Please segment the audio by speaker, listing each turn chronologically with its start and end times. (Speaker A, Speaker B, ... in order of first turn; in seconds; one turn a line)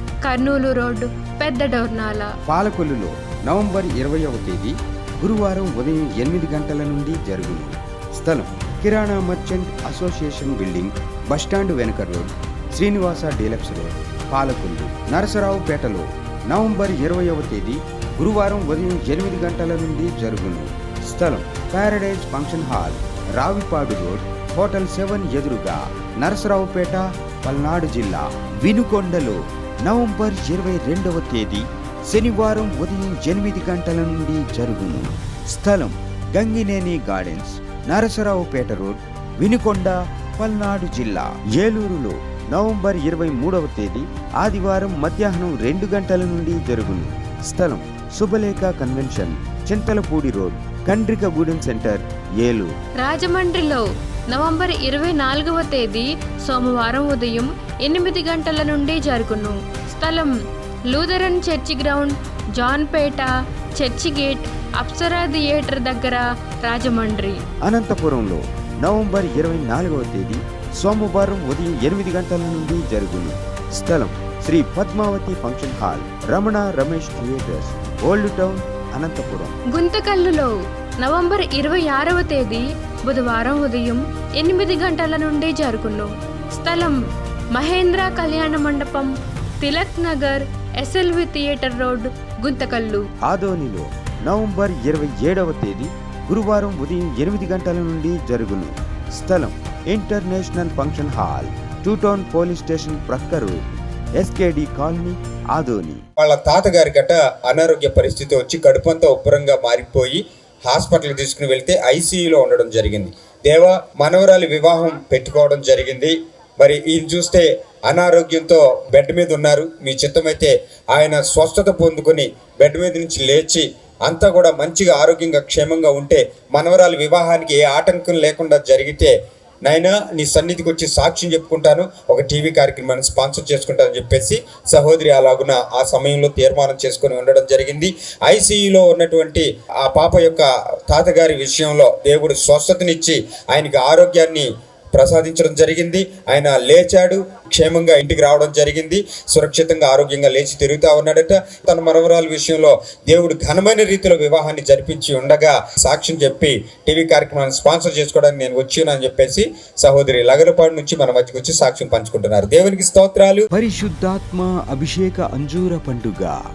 Speaker A: 0.2-2.3
Speaker B: 2.5-52.7
Speaker A: 53.0-60.3
Speaker A: 60.9-67.4
Speaker B: 67.6-79.6
Speaker A: 79.7-87.0
Speaker A: 87.5-93.0
Speaker B: 93.3-103.6
Speaker B: 104.2-106.0
Speaker C: 106.2-129.1
Speaker C: 129.7-163.4
Speaker B: 163.5-166.3